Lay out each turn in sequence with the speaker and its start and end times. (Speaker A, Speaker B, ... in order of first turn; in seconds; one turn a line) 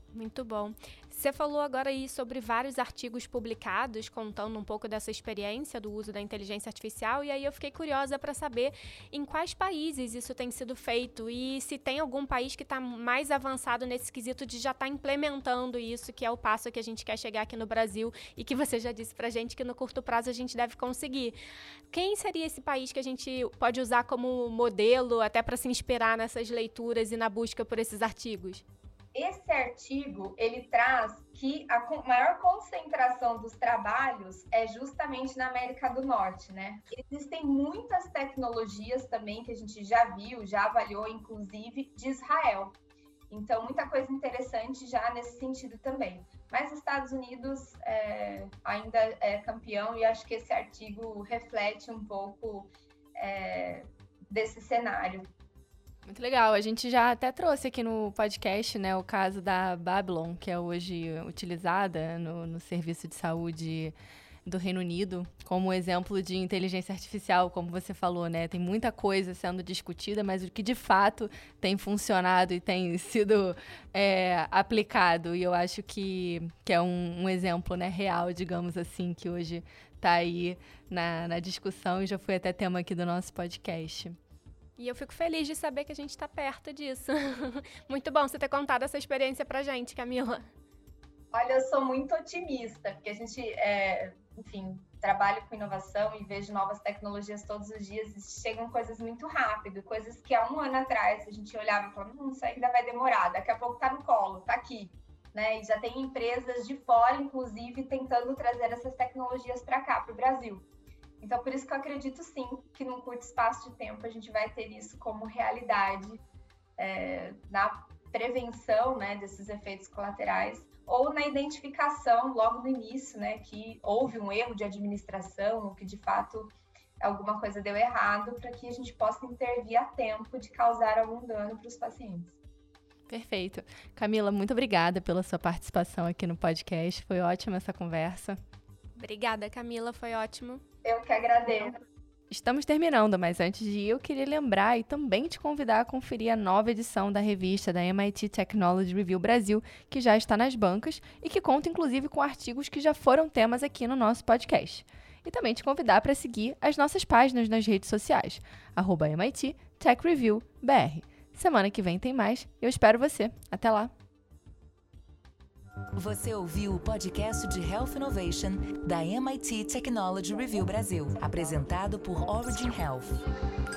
Speaker A: 0.1-21.4
Speaker A: 21.9-28.6
Speaker B: 29.1-42.8
Speaker B: 43.3-55.3
Speaker C: 56.1-63.9
Speaker C: 64.5-84.2
Speaker A: 84.8-90.5
Speaker B: 91.3-110.7
Speaker B: 111.2-116.2
Speaker B: 116.8-132.4
Speaker C: 133.1-138.4
Speaker A: 138.9-140.6
Speaker B: 140.8-141.8
Speaker C: 142.3-163.9
Speaker D: 165.9-173.2